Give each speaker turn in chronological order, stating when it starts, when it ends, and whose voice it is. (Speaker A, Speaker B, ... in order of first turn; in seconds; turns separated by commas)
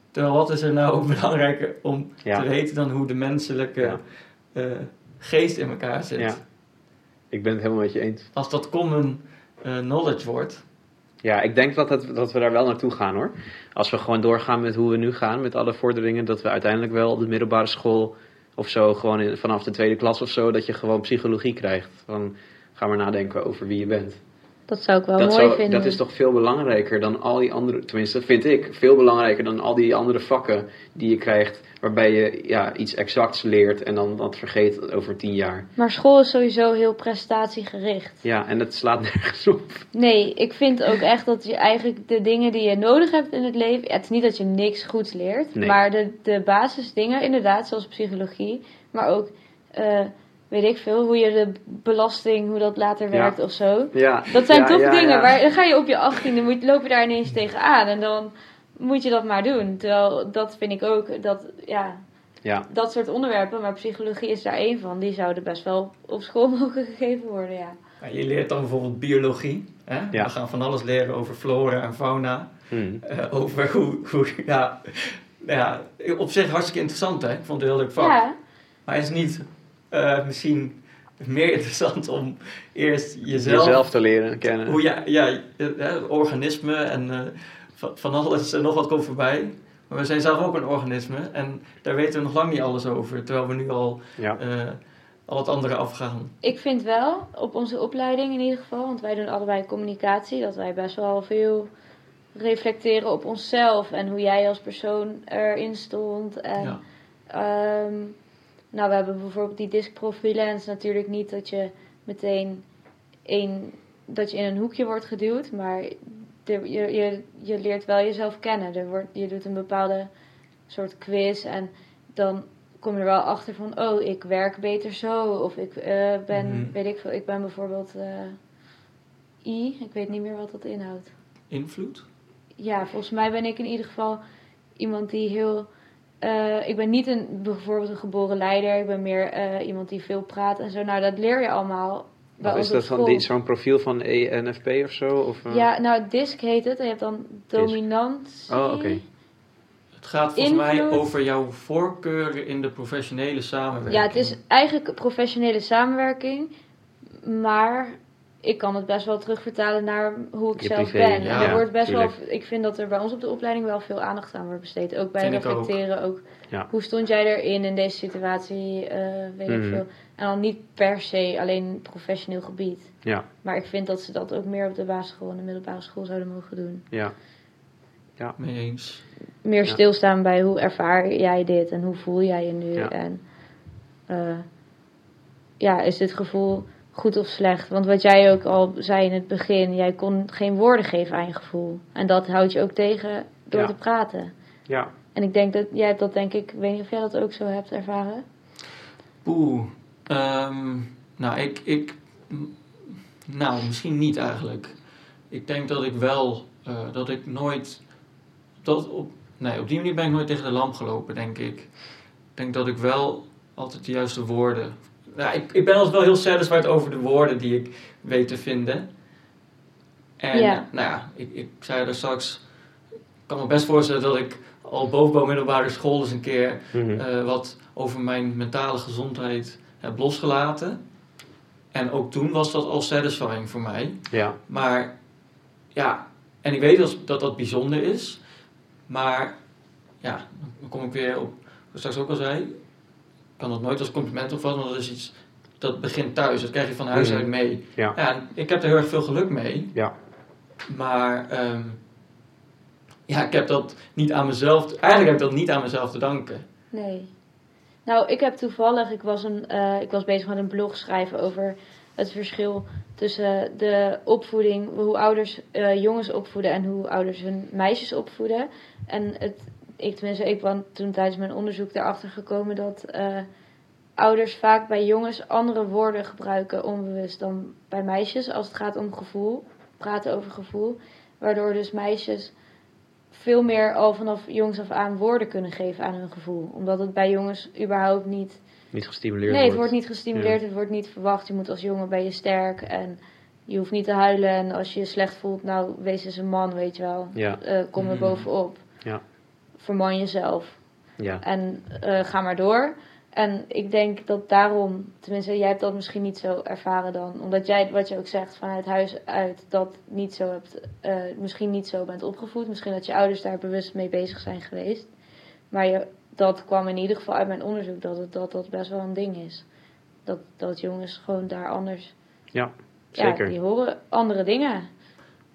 Speaker A: 0.1-6.4, Speaker B: 6.2-6.4, Speaker B: 7.3-8.3, Speaker A: 8.3-10.6, Speaker B: 11.2-24.2, Speaker C: 24.7-26.0, Speaker B: 25.1-35.7, Speaker C: 35.8-38.2, Speaker B: 38.2-39.9, Speaker C: 39.9-62.0, Speaker B: 53.1-53.4, Speaker B: 53.9-55.4, Speaker C: 62.7-67.8, Speaker A: 68.0-78.2, Speaker B: 72.7-73.0, Speaker C: 78.0-78.3, Speaker A: 78.8-83.9, Speaker B: 83.3-84.8, Speaker A: 84.6-96.3, Speaker C: 96.4-101.7, Speaker C: 102.3-106.8, Speaker C: 107.3-108.2, Speaker C: 108.7-112.7, Speaker C: 113.2-120.1, Speaker C: 120.7-128.4, Speaker A: 126.3-126.7, Speaker C: 129.4-131.1, Speaker A: 131.5-132.1, Speaker C: 132.6-134.2, Speaker C: 134.8-135.7, Speaker C: 136.2-143.2, Speaker B: 142.4-145.7, Speaker C: 145.5-149.0, Speaker B: 147.5-147.8, Speaker B: 148.5-149.0, Speaker A: 150.0-154.3, Speaker C: 150.4-151.1, Speaker C: 153.9-156.5, Speaker C: 157.2-176.8, Speaker B: 160.6-162.1, Speaker A: 161.2-161.6, Speaker A: 165.2-165.7, Speaker B: 169.5-169.8, Speaker A: 178.4-179.0, Speaker C: 179.4-183.2, Speaker C: 184.1-184.4, Speaker C: 185.6-194.3, Speaker C: 195.1-198.2, Speaker A: 199.2-204.8, Speaker A: 205.3-207.8, Speaker A: 208.6-211.7, Speaker A: 212.3-218.9, Speaker A: 220.2-222.5, Speaker C: 220.3-220.7, Speaker A: 223.3-230.8, Speaker B: 226.7-227.0, Speaker A: 231.7-235.0, Speaker B: 234.1-234.4, Speaker A: 235.7-238.2, Speaker A: 238.9-239.4, Speaker A: 240.0-242.6, Speaker A: 243.4-249.7, Speaker B: 246.9-247.9, Speaker A: 250.7-251.8, Speaker A: 253.1-256.4, Speaker C: 256.7-257.1, Speaker C: 257.8-273.3, Speaker C: 274.0-282.3, Speaker C: 283.1-288.4, Speaker B: 288.7-290.4, Speaker C: 289.2-298.6, Speaker A: 297.8-298.2, Speaker C: 299.6-300.6, Speaker B: 301.0-301.2, Speaker C: 301.2-314.9, Speaker C: 315.5-319.4, Speaker C: 320.1-321.9, Speaker B: 322.3-323.3, Speaker C: 322.9-324.7